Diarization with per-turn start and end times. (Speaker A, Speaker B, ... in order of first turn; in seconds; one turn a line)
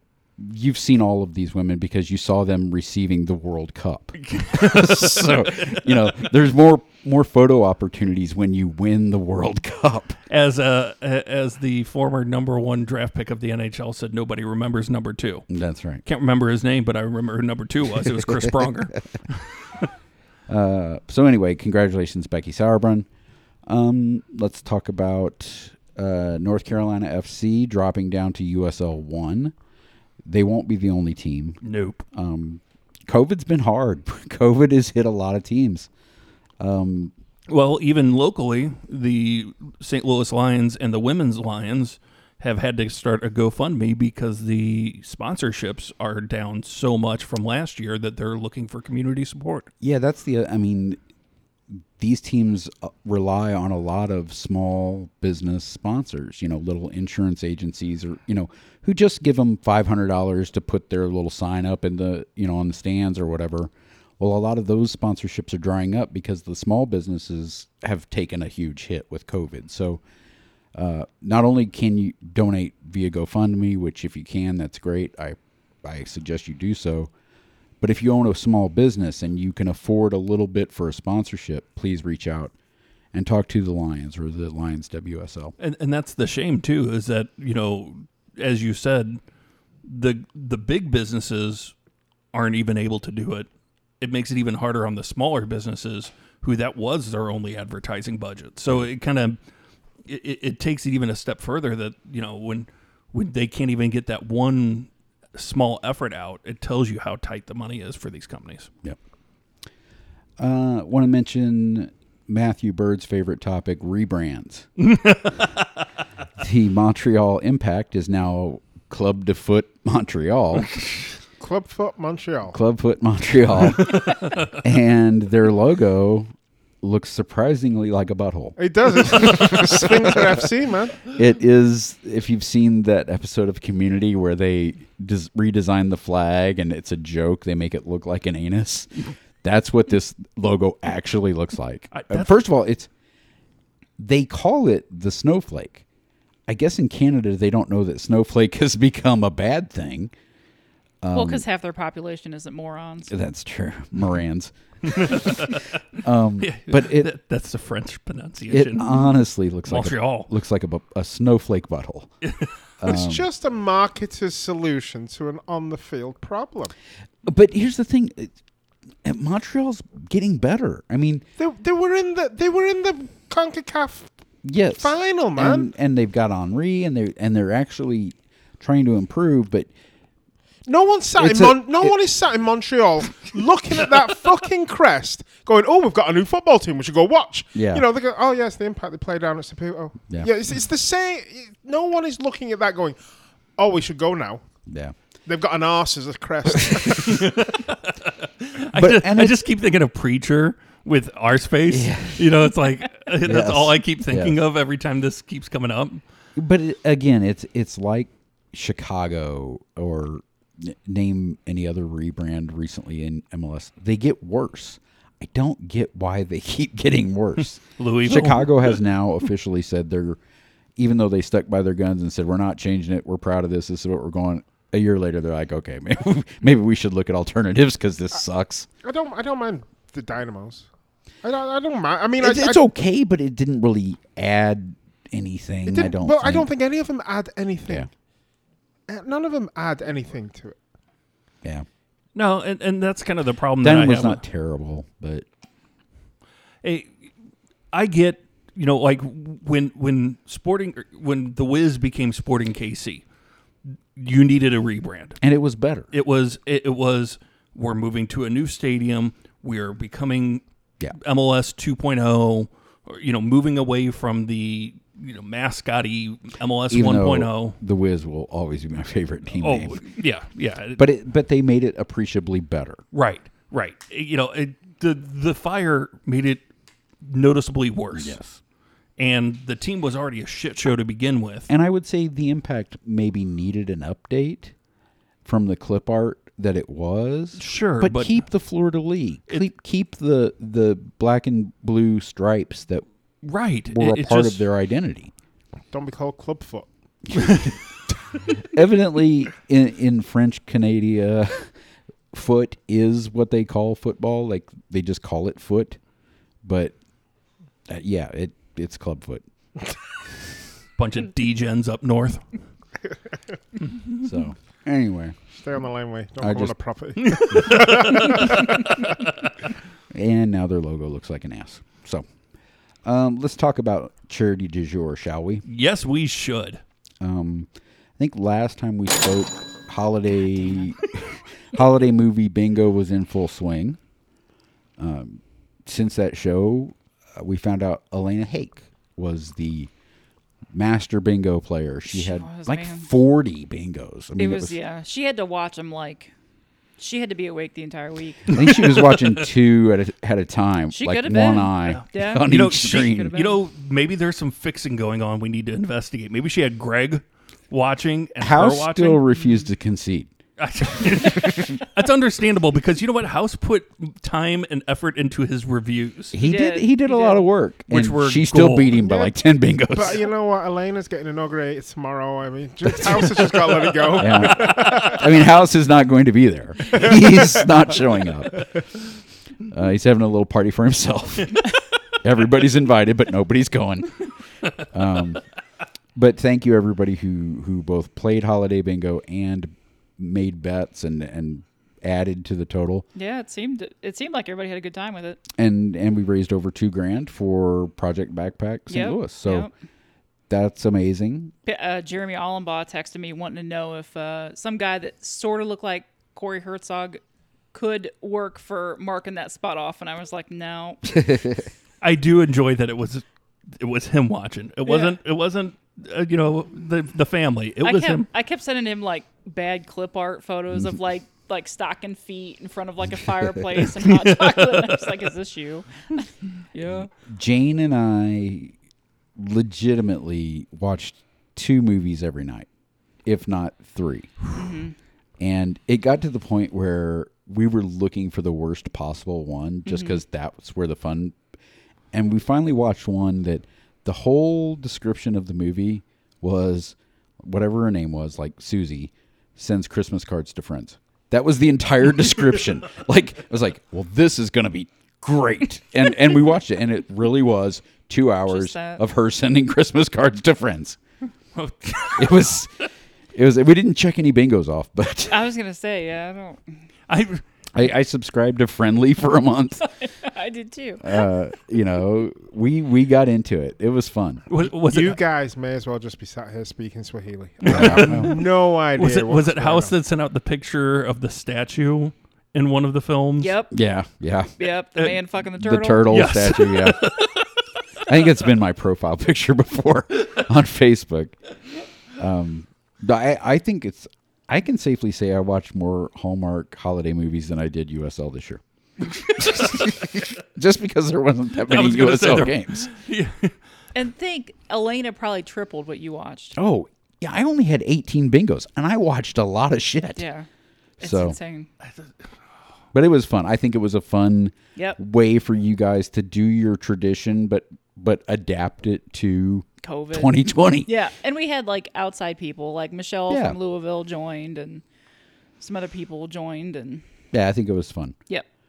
Speaker A: 0.4-10.2
Speaker B: 4.2-5.4
Speaker B: 10.3-15.5
Speaker A: 15.5-16.0
Speaker B: 16.0-19.7
Speaker A: 20.5-23.1
Speaker A: 23.6-29.5
Speaker A: 30.2-31.6
Speaker B: 31.6-32.0
Speaker A: 32.1-35.9
Speaker A: 36.6-37.1
Speaker B: 37.5-49.7
Speaker A: 49.8-51.0
Speaker A: 51.7-70.0
Speaker A: 70.7-77.1
Speaker A: 77.8-82.5
Speaker A: 83.1-85.5
Speaker B: 85.6-89.2
Speaker B: 89.8-91.7
Speaker B: 92.3-93.5
Speaker B: 94.0-99.4
Speaker B: 100.0-108.7
Speaker A: 110.4-114.7
Speaker B: 114.8-115.6
Speaker A: 116.4-120.7
Speaker C: 121.4-122.6
Speaker A: 122.5-126.3
Speaker B: 123.9-124.4
Speaker A: 126.8-130.4
Speaker C: 128.6-131.1
Speaker A: 131.1-142.9
Speaker B: 141.9-142.3
Speaker A: 144.0-145.8
Speaker A: 146.5-150.1
Speaker A: 151.0-151.4
Speaker D: 151.1-153.1
Speaker A: 153.1-155.4
Speaker B: 154.8-155.8
Speaker A: 155.9-157.1
Speaker B: 156.4-159.0
Speaker A: 158.5-162.1
Speaker B: 159.7-160.3
Speaker B: 162.2-162.5
Speaker A: 162.8-163.3
Speaker C: 162.8-166.7
Speaker A: 167.2-168.3
Speaker A: 169.0-171.2
Speaker C: 171.4-174.1
Speaker A: 174.4-179.7
Speaker C: 174.8-175.7
Speaker C: 180.7-193.0
Speaker A: 181.2-181.9
Speaker A: 187.5-187.8
Speaker C: 193.6-194.4
Speaker A: 194.7-194.9
Speaker C: 195.2-197.6
Speaker B: 197.2-206.0
Speaker A: 198.7-199.4
Speaker A: 201.7-202.3
Speaker A: 203.2-204.4
Speaker A: 206.3-220.2
Speaker B: 217.8-218.8
Speaker A: 220.8-228.7
Speaker C: 228.8-230.7
Speaker C: 231.2-232.6
Speaker A: 232.2-236.5
Speaker C: 235.7-237.9
Speaker C: 238.9-240.6
Speaker B: 242.1-244.2
Speaker A: 243.6-245.2
Speaker B: 246.6-246.9
Speaker B: 247.7-253.0
Speaker B: 253.9-255.2
Speaker A: 255.2-255.9
Speaker B: 255.9-260.4
Speaker B: 260.9-267.6
Speaker A: 266.7-269.8
Speaker B: 269.4-270.8
Speaker A: 270.8-272.8
Speaker B: 272.9-276.4
Speaker B: 277.0-278.2
Speaker A: 277.9-278.4
Speaker B: 279.0-281.5
Speaker A: 281.5-284.5
Speaker A: 285.2-292.8
Speaker B: 287.4-288.2
Speaker B: 293.2-294.4
Speaker A: 293.7-295.1
Speaker C: 295.7-296.7
Speaker A: 297.1-297.5
Speaker A: 298.3-301.5
Speaker A: 302.1-305.8
Speaker A: 306.4-306.7
Speaker A: 307.7-309.2
Speaker B: 310.8-312.2
Speaker A: 314.0-315.1
Speaker C: 315.3-318.8
Speaker A: 316.2-316.5
Speaker B: 317.0-319.3
Speaker A: 319.9-322.0
Speaker A: 322.8-325.4
Speaker B: 325.4-326.6
Speaker A: 327.0-333.8
Speaker A: 334.8-339.7
Speaker A: 340.5-344.6
Speaker D: 341.9-342.9
Speaker D: 344.1-346.1
Speaker D: 346.8-348.5
Speaker A: 348.3-353.1
Speaker B: 348.3-349.1
Speaker D: 350.7-353.4
Speaker B: 351.6-359.0
Speaker A: 358.2-360.1
Speaker B: 360.4-366.1
Speaker A: 366.1-370.0
Speaker D: 366.2-367.2
Speaker B: 367.7-368.8
Speaker C: 368.8-369.1
Speaker C: 369.7-375.1
Speaker B: 373.9-374.5
Speaker A: 374.0-378.6
Speaker C: 376.7-377.4
Speaker A: 379.5-385.2
Speaker A: 385.9-392.9
Speaker D: 392.9-395.2
Speaker A: 395.4-399.5
Speaker D: 398.7-399.5
Speaker A: 400.3-401.3
Speaker D: 401.4-407.0
Speaker D: 407.5-411.2
Speaker B: 411.8-418.1
Speaker D: 414.6-415.0
Speaker D: 417.6-426.9
Speaker B: 423.9-424.9
Speaker A: 427.0-428.5
Speaker A: 429.2-432.5
Speaker A: 433.0-434.1
Speaker D: 434.3-434.7
Speaker A: 435.2-441.2
Speaker D: 439.7-440.0
Speaker A: 441.9-460.8
Speaker D: 458.3-458.8
Speaker B: 461.3-462.3
Speaker A: 461.9-462.5
Speaker A: 463.1-465.2
Speaker D: 465.1-466.6
Speaker B: 466.9-467.2
Speaker A: 467.5-469.6
Speaker D: 469.6-471.1
Speaker A: 470.8-474.2
Speaker B: 474.3-475.0
Speaker C: 474.6-479.7
Speaker B: 477.4-483.4
Speaker A: 477.5-478.2
Speaker D: 483.2-483.5
Speaker A: 483.5-484.3
Speaker D: 484.4-485.9
Speaker A: 485.4-486.9
Speaker B: 485.9-487.2
Speaker A: 487.9-491.2
Speaker A: 492.0-498.4
Speaker A: 499.0-502.7
Speaker B: 501.4-503.3
Speaker D: 503.7-506.4
Speaker A: 506.3-510.0
Speaker D: 509.9-510.3
Speaker A: 510.8-511.2
Speaker D: 510.8-511.5
Speaker B: 511.6-511.9
Speaker A: 512.7-520.7
Speaker D: 519.6-524.6
Speaker A: 523.1-523.4
Speaker D: 525.4-526.8
Speaker A: 527.1-528.0